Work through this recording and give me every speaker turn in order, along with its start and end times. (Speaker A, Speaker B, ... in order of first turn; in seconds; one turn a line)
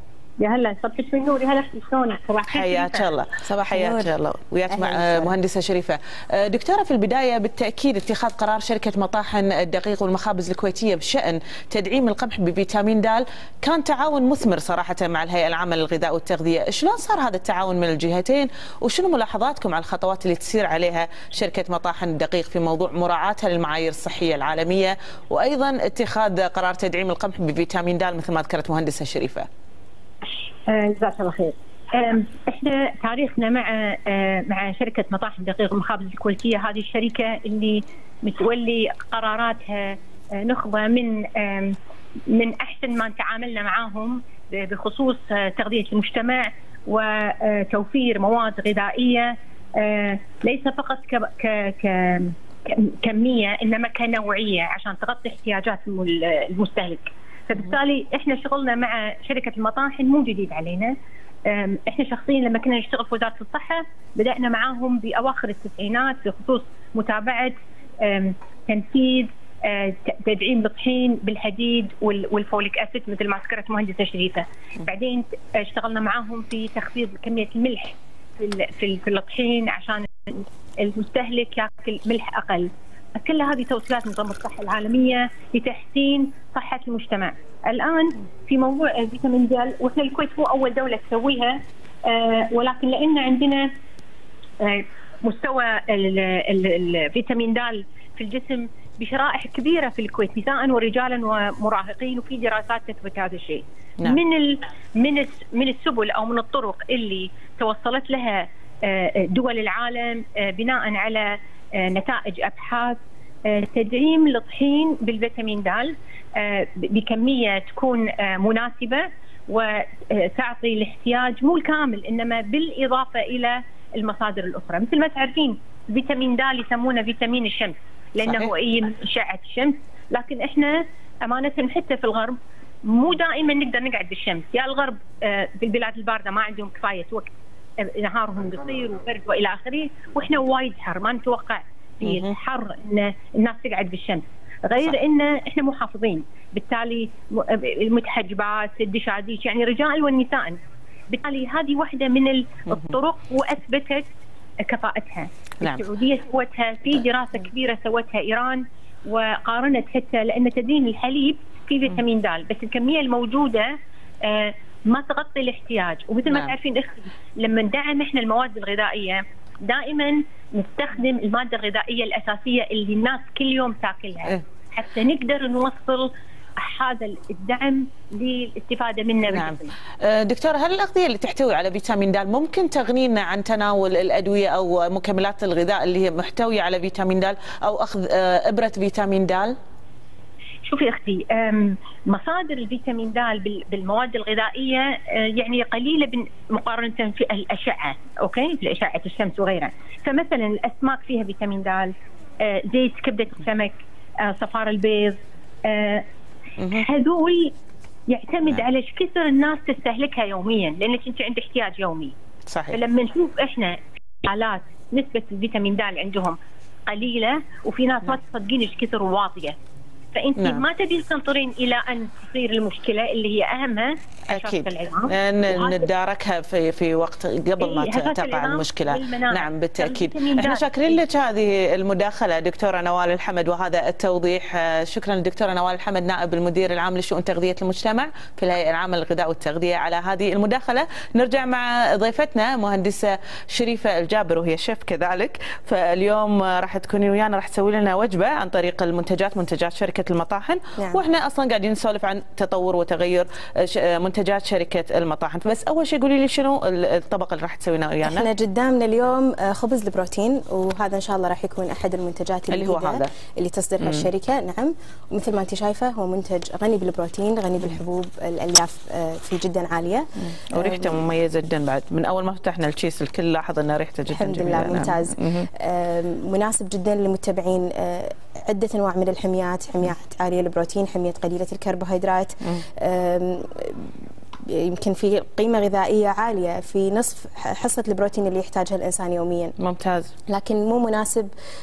Speaker A: 0.4-3.1
Speaker B: 2.5-29.5
Speaker C: 3.5-4.1
Speaker C: 4.7-5.3
Speaker A: 30.7-41.8
Speaker A: 42.3-60.9
Speaker A: 61.5-93.7
Speaker A: 94.6-150.6
Speaker B: 128.2-128.5
Speaker B: 142.0-142.3
Speaker A: 151.1-154.1
Speaker B: 152.7-152.9
Speaker A: 154.6-163.7
Speaker B: 155.6-155.8
Speaker A: 164.2-179.7
Speaker B: 166.3-166.5
Speaker B: 179.2-189.5
Speaker A: 190.7-206.0
Speaker B: 206.6-206.9
Speaker A: 206.7-207.5
Speaker A: 208.1-212.1
Speaker B: 212.5-212.8
Speaker A: 212.7-219.6
Speaker A: 220.1-225.9
Speaker B: 220.4-220.7
Speaker B: 224.3-258.3
Speaker A: 227.6-231.0
Speaker C: 250.8-251.0
Speaker C: 258.0-271.1
Speaker B: 262.5-263.1
Speaker B: 270.3-275.5
Speaker C: 274.1-289.5
Speaker B: 289.6-290.1
Speaker C: 290.3-291.3